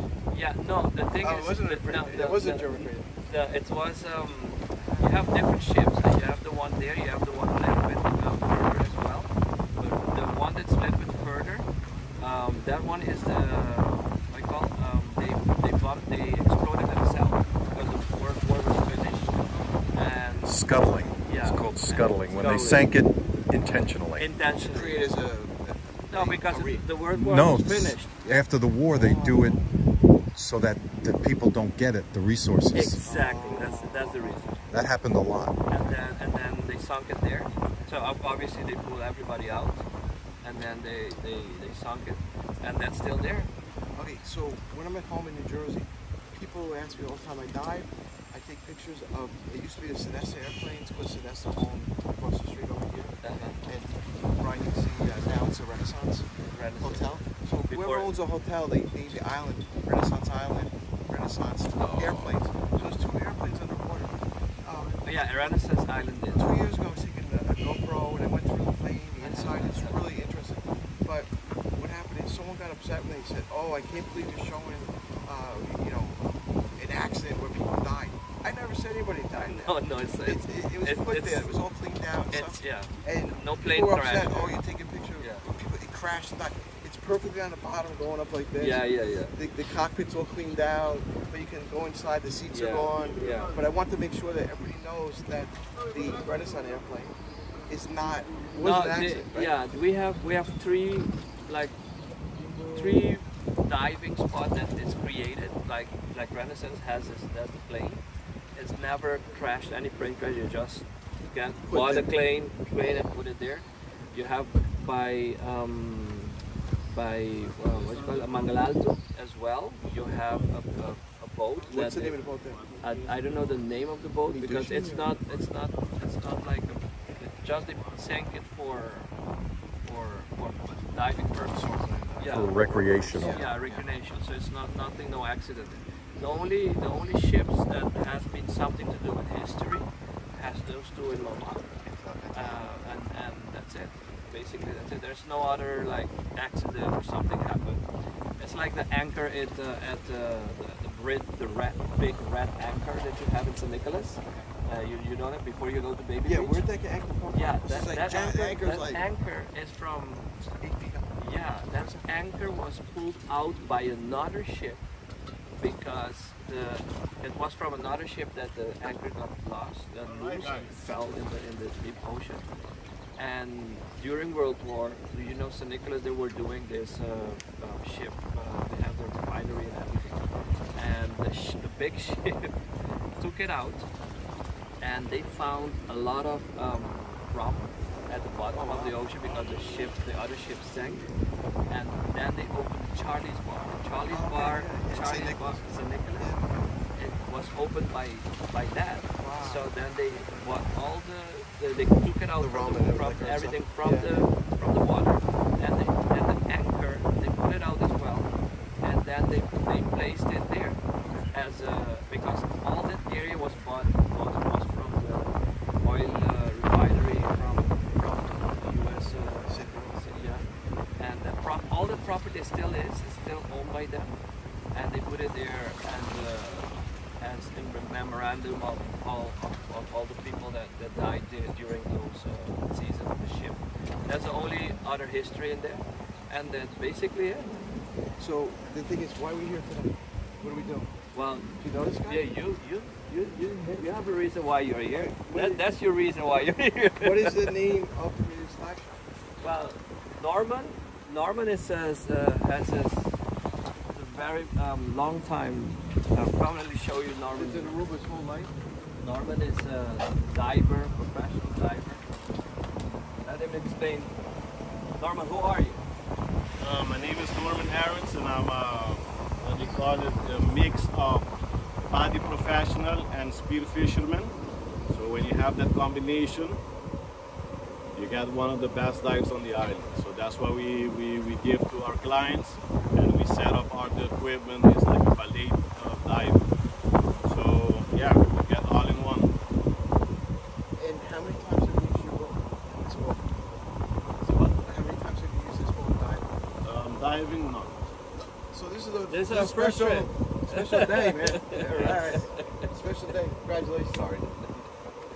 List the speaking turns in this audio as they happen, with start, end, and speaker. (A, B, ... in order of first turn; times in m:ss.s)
0:00.3-0:19.3 A
0:01.2-0:03.1 B
0:04.8-0:05.1 B
0:19.9-0:22.9 A
0:20.4-0:24.3 C
0:24.2-0:25.2 A
0:24.6-0:26.9 B
0:26.1-0:28.2 A
0:27.1-0:29.6 C
0:28.3-0:29.7 B
0:30.4-0:33.0 C
0:32.7-0:34.6 A
0:33.0-0:34.3 B
0:34.7-0:35.5 C
0:35.7-0:39.8 A
0:40.4-0:43.5 A
0:44.0-1:05.6 B
0:53.2-0:53.6 A
0:56.5-0:58.2 A
1:01.8-1:02.4 C
1:05.0-1:06.6 A
1:06.3-1:19.7 B
1:09.2-1:10.0 A
1:19.4-1:21.6 A
1:20.2-1:28.8 B
1:22.3-1:24.6 A
1:25.2-1:25.5 A
1:28.6-1:29.4 A
1:29.4-1:37.2 B
1:32.5-1:33.6 A
1:37.7-1:39.6 B
1:38.6-1:41.8 A
1:42.7-1:48.0 A
1:48.6-1:56.4 A
1:51.7-1:52.1 B
1:56.9-2:02.1 A
1:57.6-1:58.5 D
2:01.5-2:03.6 D
2:01.7-2:02.6 B
2:02.8-2:09.1 A
2:04.3-2:05.1 B
2:09.8-2:21.7 A
2:11.4-2:13.9 B
2:12.2-2:13.4 C
2:21.8-2:22.7 B
2:22.3-2:27.8 A
2:28.4-2:36.7 A
2:36.2-2:39.0 B
2:37.3-2:40.3 A
2:40.6-2:42.1 B
2:41.2-2:44.8 A
2:45.6-2:52.5 A
2:50.1-2:50.9 D
2:53.2-3:02.6 A
3:03.2-3:03.9 A
3:04.8-3:11.1 A
3:08.5-3:09.5 B
3:11.7-3:16.3 A
3:14.1-3:16.7 B
3:17.0-3:30.8 A
3:19.2-3:19.7 B
3:22.4-3:24.1 B
3:31.3-3:40.5 A
3:39.5-3:40.0 B
3:41.0-3:44.2 A
3:44.7-3:57.6 A
3:58.2-4:00.9 B
4:01.1-4:07.5 A
4:01.6-4:02.2 B
4:04.9-4:05.6 B
4:07.0-4:09.0 B
4:09.4-4:13.2 A
4:13.9-4:17.8 A
4:17.3-4:18.5 B
4:19.0-4:22.1 A
4:23.2-4:24.2 A
4:25.0-4:25.8 A
4:26.6-4:31.3 D
4:31.9-4:34.3 D
4:34.9-4:36.6 D
4:38.0-4:46.4 D
4:47.3-4:49.3 D
4:50.8-4:53.3 B
4:54.5-4:56.3 B
4:56.6-4:57.9 D
4:58.5-5:04.8 B
4:59.1-5:02.7 A